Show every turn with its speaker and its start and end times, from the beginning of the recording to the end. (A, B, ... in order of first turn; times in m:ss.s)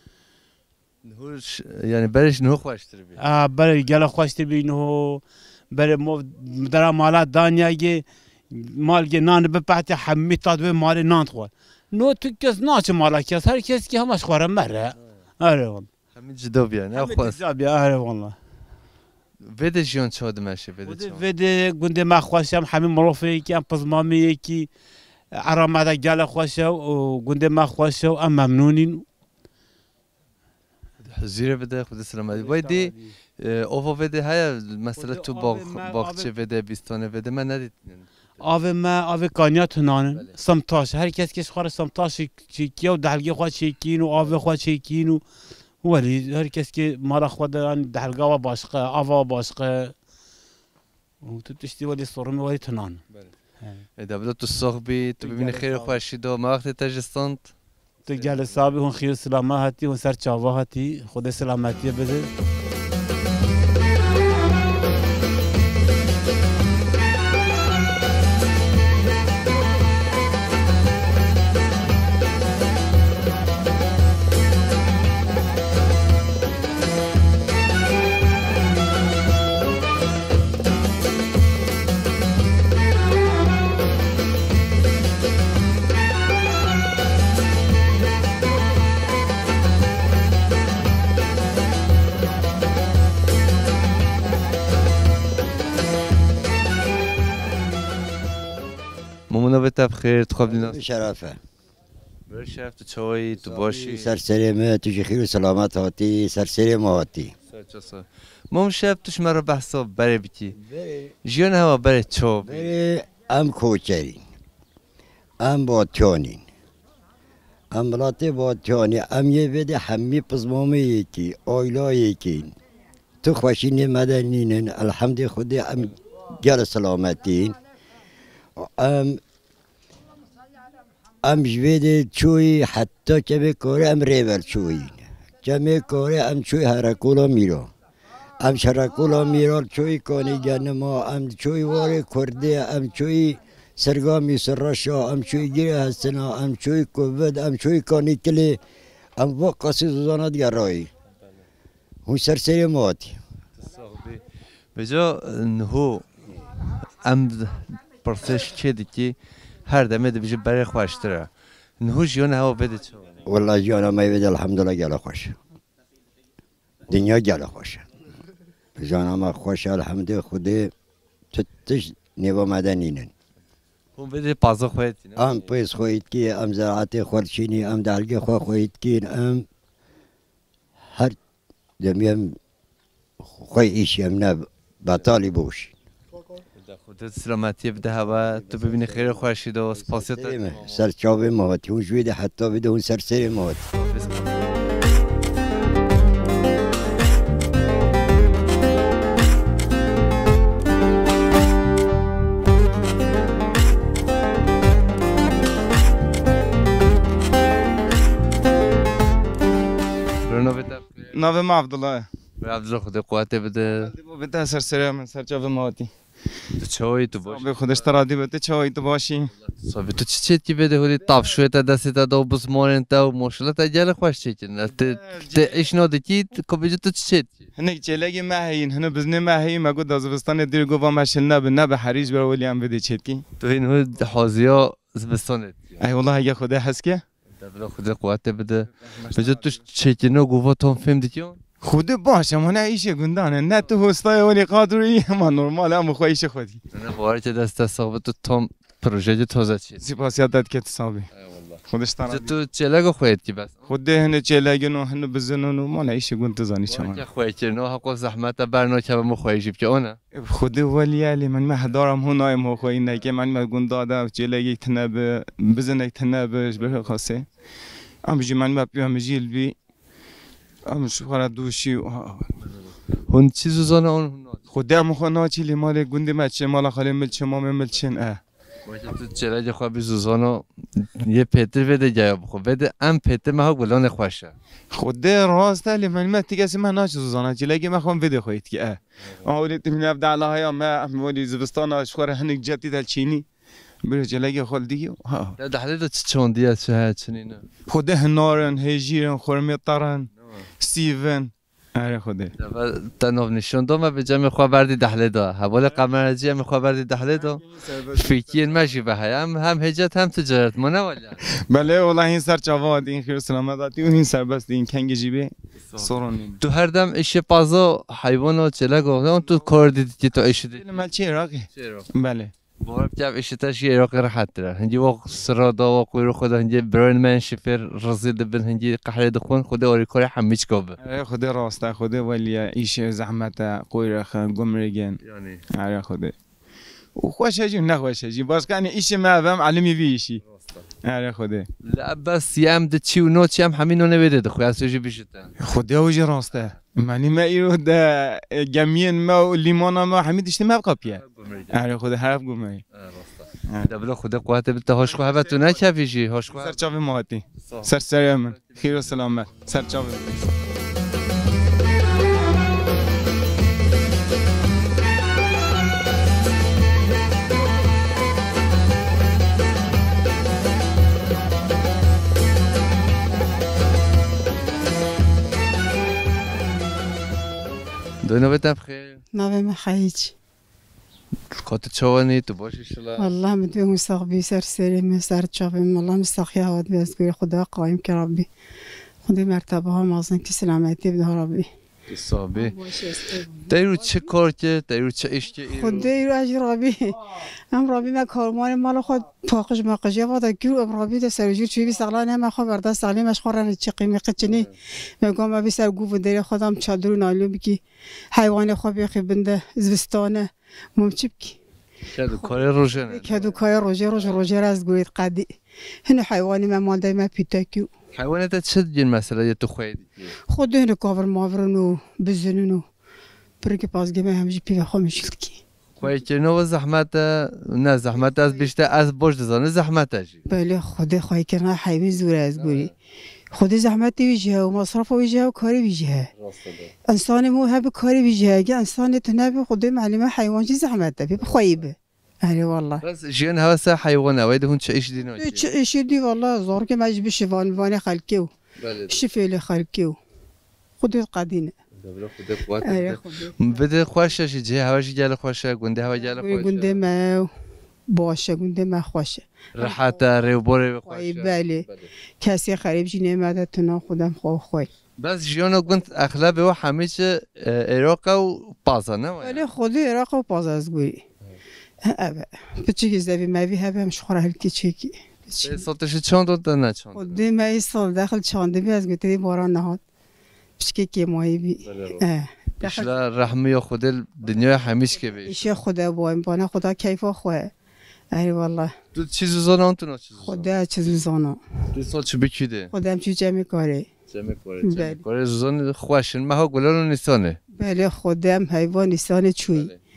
0:01.0-0:03.2 A
0:03.2-0:15.9 B
0:16.1-0:17.4 A
0:16.9-0:18.4 B
0:19.4-0:21.2 A
0:20.8-0:24.7 B
0:25.4-0:29.0 B
0:31.0-0:38.5 A
0:32.3-0:33.1 B
0:35.0-0:36.3 B
0:38.4-0:45.2 B
0:45.8-0:49.9 B
0:51.2-0:53.0 B
0:53.6-0:53.8 B
0:54.0-0:57.5 A
0:55.2-0:56.0 B
0:58.1-1:02.3 B
0:58.1-0:58.6 A
1:39.3-1:40.8 A
1:40.4-1:41.4 C
1:42.3-1:44.1 A
1:43.4-1:47.3 C
1:47.5-1:50.6 A
1:50.6-1:51.1 C
1:51.2-1:52.7 A
1:52.4-1:54.2 C
1:55.4-1:56.4 C
1:57.7-2:02.5 C
2:03.2-2:07.6 C
2:08.6-2:09.2 C
2:11.2-2:17.7 C
2:18.4-2:28.6 C
2:29.2-2:30.9 C
2:32.0-2:33.2 C
2:33.6-2:34.2 A
2:34.7-2:36.0 A
2:37.0-2:43.2 A
2:43.2-2:45.4 C
2:46.9-2:47.8 C
2:48.8-2:50.7 C
2:51.3-2:53.1 C
2:54.0-2:55.5 A
2:55.2-2:59.4 C
3:01.8-3:02.4 C
3:03.4-3:05.7 C
3:06.6-3:10.9 A
3:07.9-3:13.6 C
3:13.7-3:14.4 A
3:30.2-3:31.2 A
3:31.1-3:32.1 D
3:32.4-3:33.9 A
3:33.7-3:35.9 D
3:36.6-3:37.9 A
3:37.2-3:39.3 D
3:39.4-3:47.5 A
3:44.8-3:45.6 D
3:47.6-3:53.2 D
3:53.4-3:55.8 A
3:55.8-3:57.0 D
3:57.4-4:01.4 A
3:59.1-3:59.5 D
4:01.6-4:06.6 D
4:06.7-4:09.8 A
4:09.8-4:11.1 D
4:11.1-4:13.7 A
4:11.7-4:12.3 D
4:13.7-4:17.0 D
4:16.7-4:20.0 A
4:20.1-4:27.2 D
4:28.0-4:29.5 D
4:30.7-4:32.3 D
4:33.1-4:34.4 A
4:34.5-4:38.2 D
4:38.6-4:44.3 A
4:44.7-4:53.2 D
4:53.9-4:55.4 D
4:55.4-4:57.4 A
4:57.7-5:00.1 D
5:00.2-5:00.4 A
5:00.6-5:02.3 D
5:02.4-5:11.2 A
5:11.5-5:16.4 D
5:15.7-5:20.6 A
5:20.5-5:22.3 D
5:21.5-5:21.9 A
5:22.6-5:30.8 A
5:30.8-5:35.0 D
5:35.0-5:35.4 A
5:35.5-5:36.1 D
5:37.0-5:40.2 D
5:40.2-5:40.7 A
5:40.8-5:41.4 D
5:41.6-5:45.3 A
5:45.4-5:52.6 D
5:50.8-5:51.6 A
5:52.7-5:56.6 A
5:54.9-5:55.4 D
5:56.3-6:00.3 D
5:57.4-5:57.8 A
5:58.3-5:59.0 A
6:18.0-6:19.0 A
6:19.1-6:20.1 E
6:21.3-6:23.1 A
6:23.0-6:28.3 E
6:29.0-6:31.5 E
6:31.9-6:32.5 A
6:32.3-6:33.5 E
6:33.5-6:35.9 A
6:35.5-6:37.0 E
6:37.5-6:44.5 E
6:44.2-6:44.5 A
6:45.0-6:47.6 E
6:48.1-6:51.4 E
6:51.9-6:53.4 A
6:52.1-6:55.3 E
6:55.9-6:57.7 E
6:57.9-7:00.1 A
7:00.3-7:02.6 E
7:03.4-7:05.4 E
7:05.8-7:10.2 A
7:10.3-7:12.7 E
7:12.4-7:12.7 A
7:13.3-7:16.1 E
7:16.2-7:16.7 A
7:16.9-7:22.8 E
7:21.2-7:21.6 A
7:22.8-7:25.5 A
7:25.2-7:28.3 E
7:28.6-7:29.0 A
7:28.9-7:30.0 E
7:30.8-7:31.5 E
7:31.8-7:36.8 A
7:32.6-7:33.5 E
7:36.1-7:37.3 E
7:37.9-7:40.0 E
7:39.5-7:41.9 A
7:40.8-7:41.6 E
7:42.2-7:44.7 E
7:45.0-7:49.4 A
7:49.2-7:51.0 E
7:51.8-7:55.6 E
7:55.4-7:57.2 A
7:56.9-7:59.8 E
8:00.6-8:02.9 E
8:01.6-8:02.0 A
8:02.6-8:05.5 A
8:05.2-8:07.5 E
8:08.1-8:08.7 E
8:08.9-8:10.5 A
8:10.2-8:11.4 E
8:11.7-8:12.7 A
8:12.7-8:13.9 E
8:14.1-8:17.4 A
8:14.6-8:15.0 E
8:17.6-8:19.7 E
8:19.5-8:19.8 A